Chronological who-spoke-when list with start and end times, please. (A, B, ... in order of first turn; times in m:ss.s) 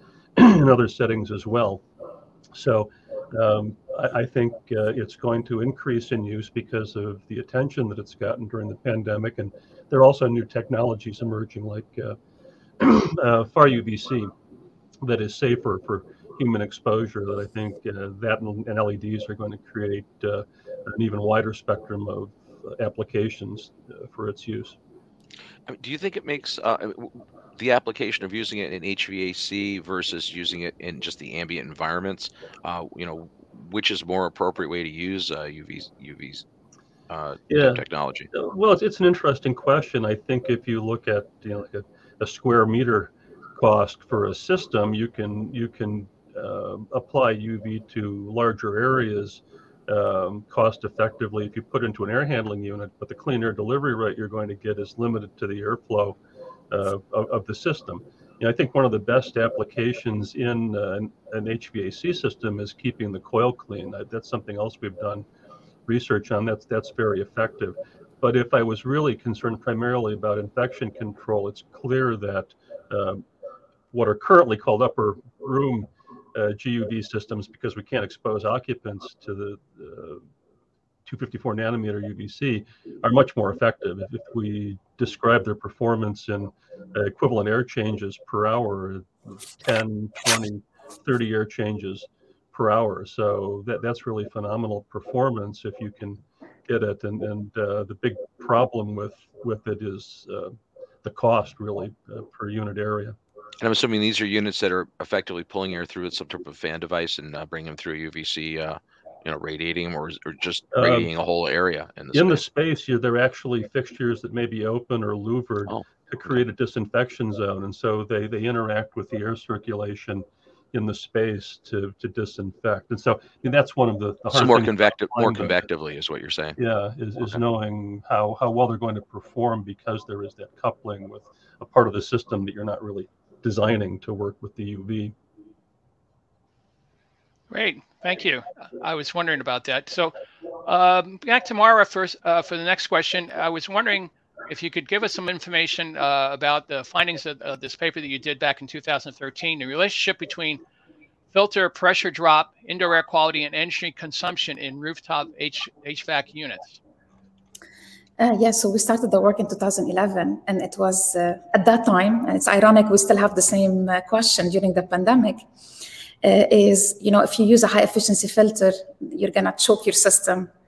0:00.4-0:01.8 A
0:02.5-0:12.2 A
0:12.8-0:14.3 A
0:15.0-0:24.8 A
0:25.7-0:36.4 B
0:37.1-0:38.3 B
0:37.5-0:56.2 A
0:56.7-1:05.2 A
1:05.9-1:13.2 A
1:13.9-1:20.2 A
1:21.1-1:43.2 A
1:43.6-1:52.4 B
1:50.8-1:51.1 A
1:52.1-2:05.6 A
2:04.3-2:06.6 B
2:06.6-2:15.2 A
2:17.5-2:20.1 C
2:20.6-2:30.6 C
2:31.3-2:36.8 C
2:38.2-2:45.4 D
2:46.2-2:50.5 D